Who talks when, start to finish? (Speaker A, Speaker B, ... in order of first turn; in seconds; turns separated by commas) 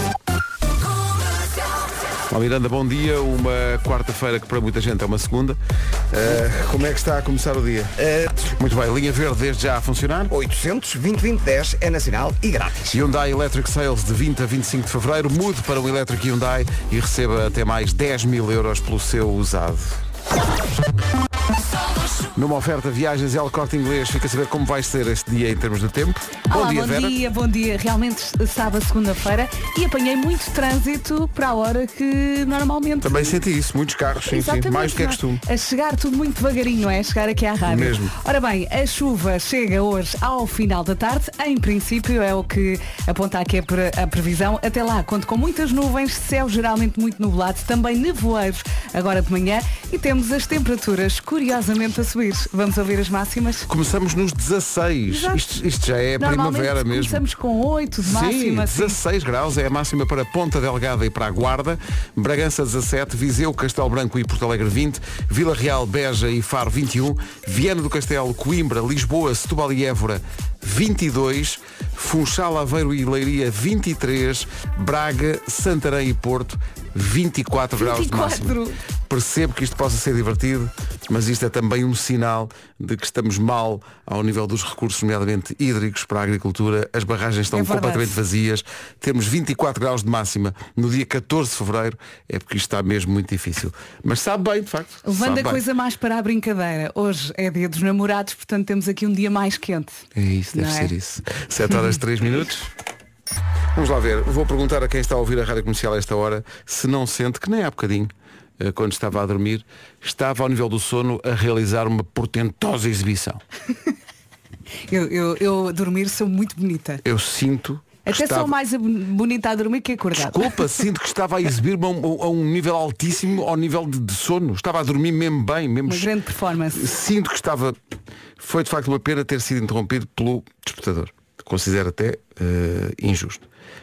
Speaker A: 2.3-5.6, Speaker A: 6.1-10.3, Speaker B: 8.0-8.3, Speaker B: 10.3-12.8, Speaker A: 12.9-20.0, Speaker A: 22.3-27.2, Speaker C: 26.5-33.4, Speaker A: 33.0-35.4, Speaker C: 34.3-53.7, Speaker A: 37.6-38.1, Speaker A: 53.7-57.2, Speaker C: 55.1-55.4, Speaker C: 56.2-59.0, Speaker A: 58.0-78.6, Speaker C: 77.8-78.8, Speaker A: 79.1-95.6, Speaker C: 87.5-88.2, Speaker C: 95.0-100.9, Speaker A: 100.2-102.7, Speaker A: 103.7-113.4, Speaker C: 114.9-117.0, Speaker A: 117.0-118.5, Speaker C: 118.0-120.6, Speaker A: 120.2-126.1, Speaker C: 125.8-126.9, Speaker A: 126.7-127.8, Speaker A: 128.4-133.4